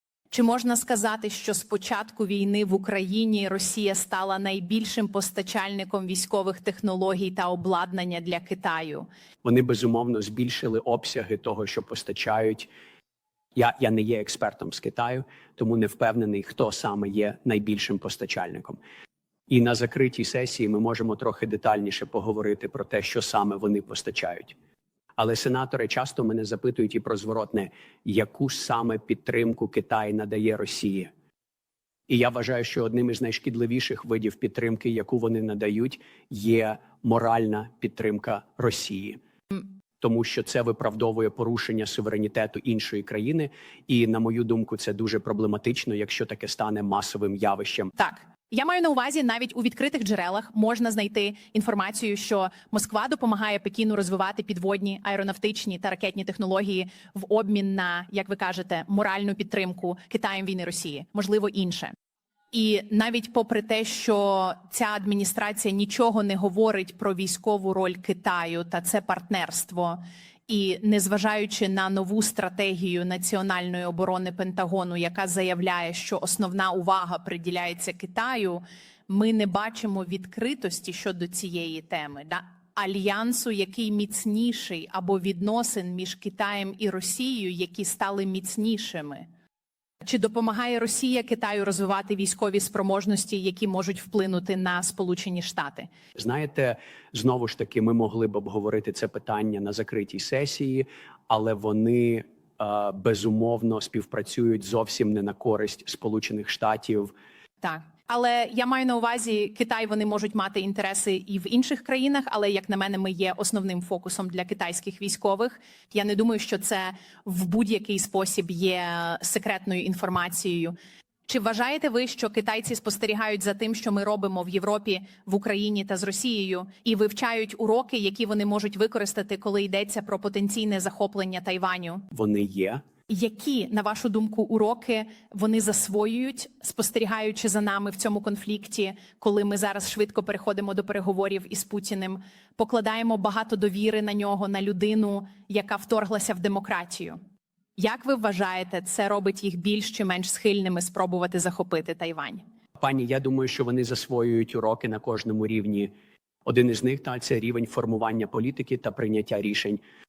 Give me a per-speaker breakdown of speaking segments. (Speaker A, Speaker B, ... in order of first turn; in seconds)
Speaker A: 0.3-9.1, 48.0-61.9, 62.5-89.3, 90.0-95.9, 107.6-120.7, 121.3-132.1, 133.1-147.2, 147.8-152.4
Speaker B: 9.4-12.7, 13.6-18.8, 19.5-24.6, 25.2-31.1, 32.1-39.2, 40.0-47.9, 96.1-107.1, 132.1-132.8, 152.8-155.9, 156.4-159.8